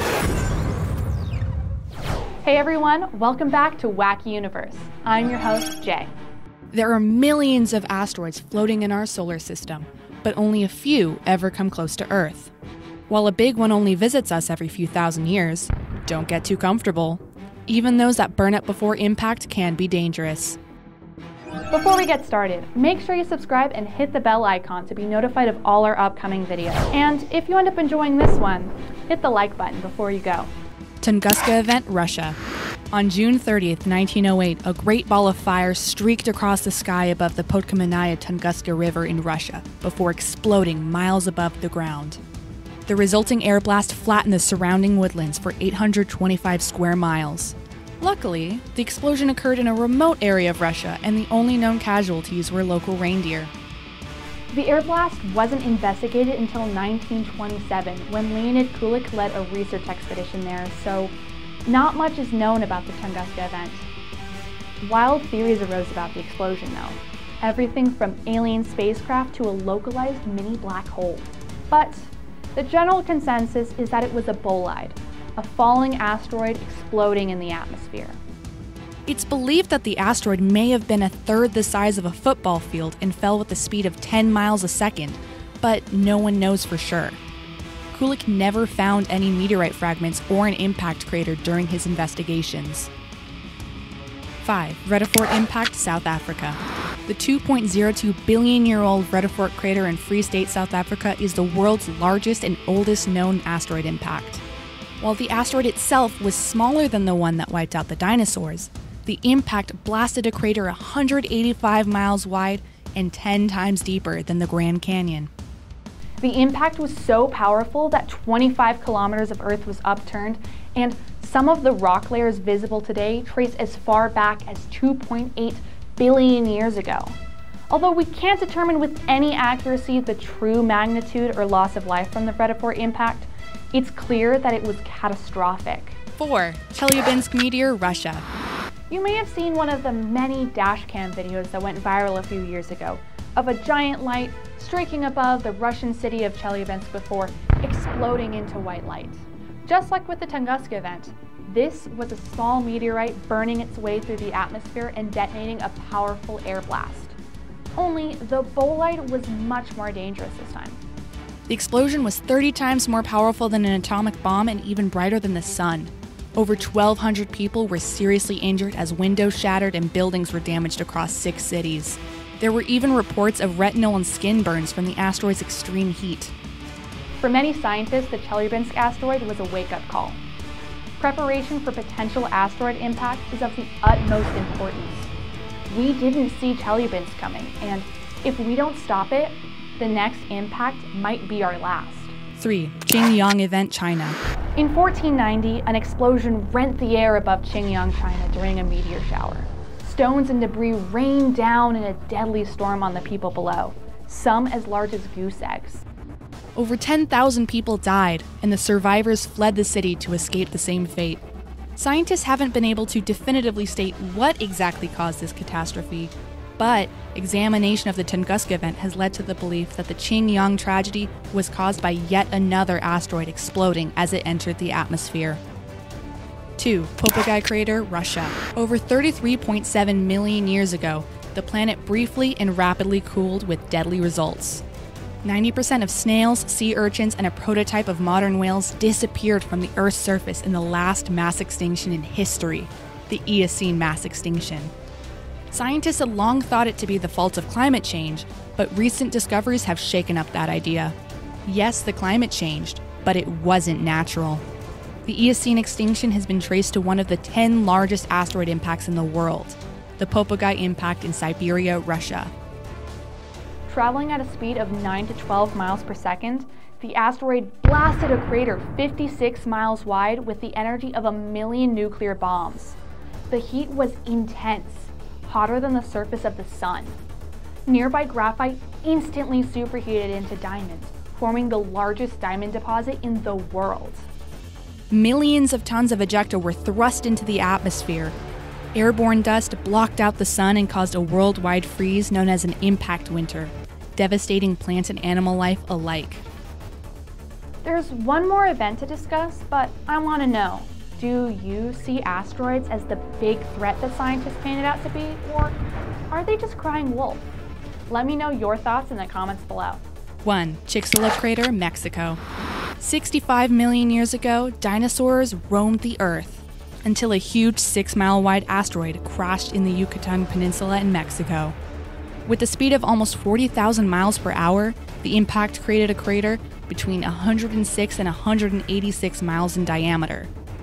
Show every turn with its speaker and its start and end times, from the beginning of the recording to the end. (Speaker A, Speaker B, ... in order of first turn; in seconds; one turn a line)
Speaker A: 2.4-6.1
Speaker B: 6.7-12.5
Speaker B: 13.1-20.6
Speaker A: 21.7-30.5
Speaker B: 31.0-32.4
Speaker B: 32.9-42.2
Speaker B: 42.9-53.5
Speaker A: 54.5-63.9
Speaker A: 64.8-78.2
Speaker B: 79.1-87.2
Speaker B: 87.9-92.9
Speaker B: 94.4-104.4
Speaker B: 105.0-115.3
Speaker A: 116.2-127.2
Speaker A: 127.7-136.0
Speaker B: 136.2-138.2
Speaker A: 138.9-157.2
Speaker A: 157.8-160.8
Speaker B: 161.5-176.3
Speaker A: 177.2-180.2
Speaker A: 181.0-185.1
Speaker A: 185.7-192.2
Speaker B: 192.4-194.2
Speaker A: 194.6-205.8
Speaker B: 206.6-211.2
Speaker B: 211.8-225.4
Speaker B: 226.6-234.6
Speaker B: 235.2-244.7
Speaker B: 245.5-254.4
Speaker B: 255.1-262.3
Speaker A: 263.6-272.8
Speaker A: 273.3-277.0
Speaker A: 277.6-284.1
Speaker B: 284.9-288.1
Speaker B: 288.7-296.2
Speaker A: 297.6-307.3
Speaker A: 307.9-309.8
Speaker B: 310.2-312.2
Speaker B: 312.8-321.6
Speaker B: 322.2-330.3